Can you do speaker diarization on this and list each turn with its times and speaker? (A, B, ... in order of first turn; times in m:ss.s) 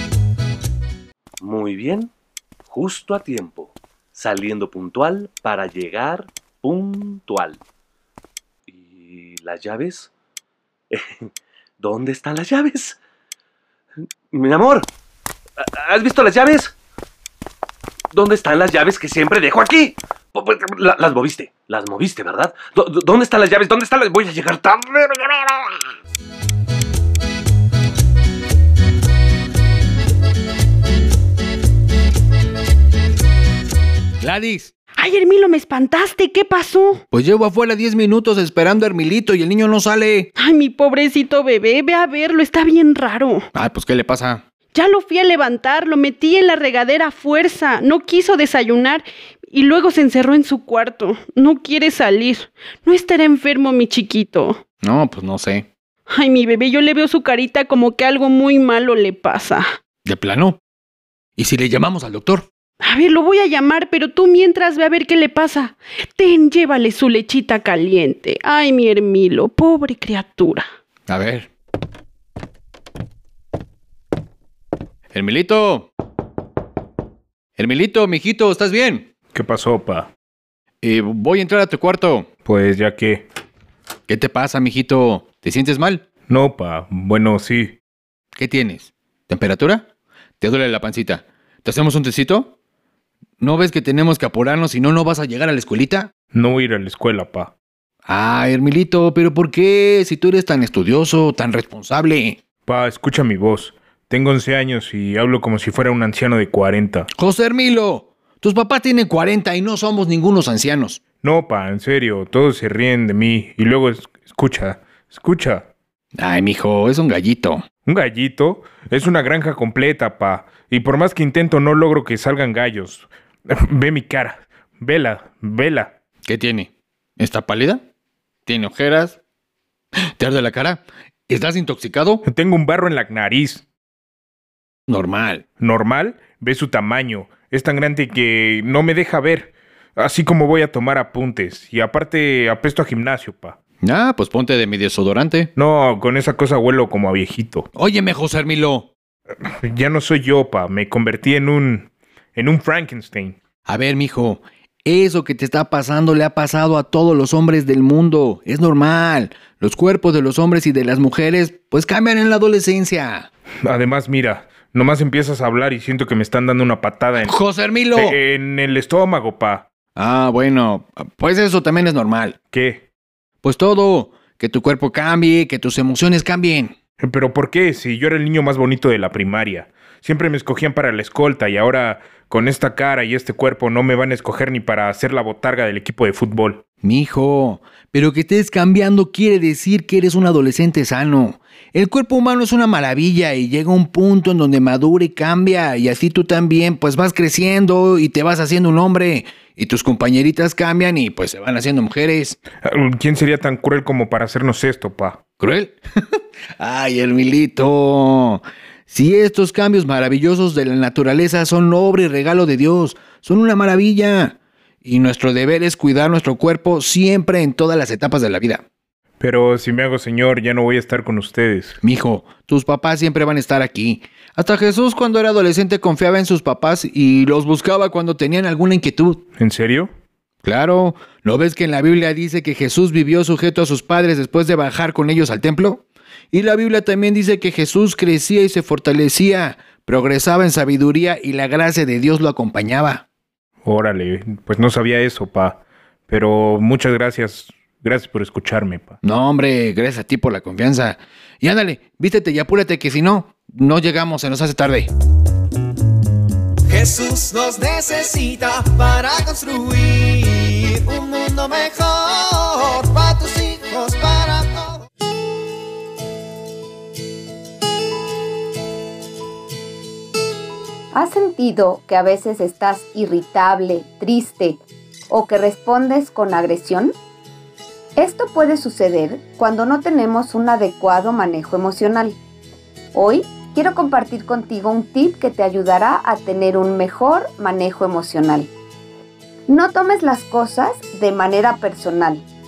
0:01.4-0:02.1 A
0:02.7-0:07.6 A
0:08.7-0:10.1 A
0:10.9-0:11.3 A
0:11.8-0:13.0 A
0:14.3-0:14.9 A
0:15.6-0:16.7 A
0:18.1-0:25.7 A
0:34.2-0:34.7 B
0:35.0-0:37.0 C
0:37.1-0:40.3 B
0:40.4-0:43.5 C
0:43.6-0:44.4 B
0:44.7-0:54.6 C
0:54.8-0:55.7 B
0:56.1-0:59.6 C
1:00.1-1:00.6 B
1:01.4-1:02.5 B
1:02.8-1:10.6 C
1:11.1-1:11.5 B
1:15.1-1:15.9 B
1:17.6-1:19.1 B
1:19.3-1:20.1 D
1:20.8-1:22.3 B
1:22.4-1:23.2 D
1:24.1-1:26.0 B
1:26.3-1:27.8 D
1:28.4-1:29.8 B
1:30.4-1:32.5 B
1:33.4-1:36.1 B
1:36.3-1:37.5 D
1:38.1-1:42.4 B
1:42.7-1:47.1 D
1:47.2-1:51.0 B
1:51.2-1:55.7 D
1:56.2-1:57.6 B
1:57.9-2:05.9 D
2:06.3-2:07.8 B
2:08.5-2:09.2 B
2:10.2-2:12.2 B
2:12.2-2:13.6 D
2:14.9-2:15.4 B
2:15.6-2:23.6 D
2:23.8-2:25.5 B
2:25.6-2:27.7 D
2:27.8-2:28.9 B
2:29.4-2:33.4 D
2:33.7-2:43.3 B
2:43.7-2:47.4 D
2:47.3-2:48.2 B
2:47.9-2:49.6 D
2:50.0-2:52.4 B
2:52.5-2:52.8 D
2:53.4-2:56.7 B
2:57.0-3:06.6 D
3:06.8-3:22.4 B
3:22.6-3:25.2 D
3:25.4-3:38.6 B
3:39.2-3:41.8 D
3:41.8-3:49.2 B
3:49.4-3:49.9 D
3:50.4-4:03.0 B
4:03.6-4:09.0 D
4:09.0-4:14.9 B
4:16.7-4:24.8 E
4:30.9-4:36.9 F
4:38.0-4:42.2 F
4:42.9-4:48.5 F
4:49.5-4:52.2 F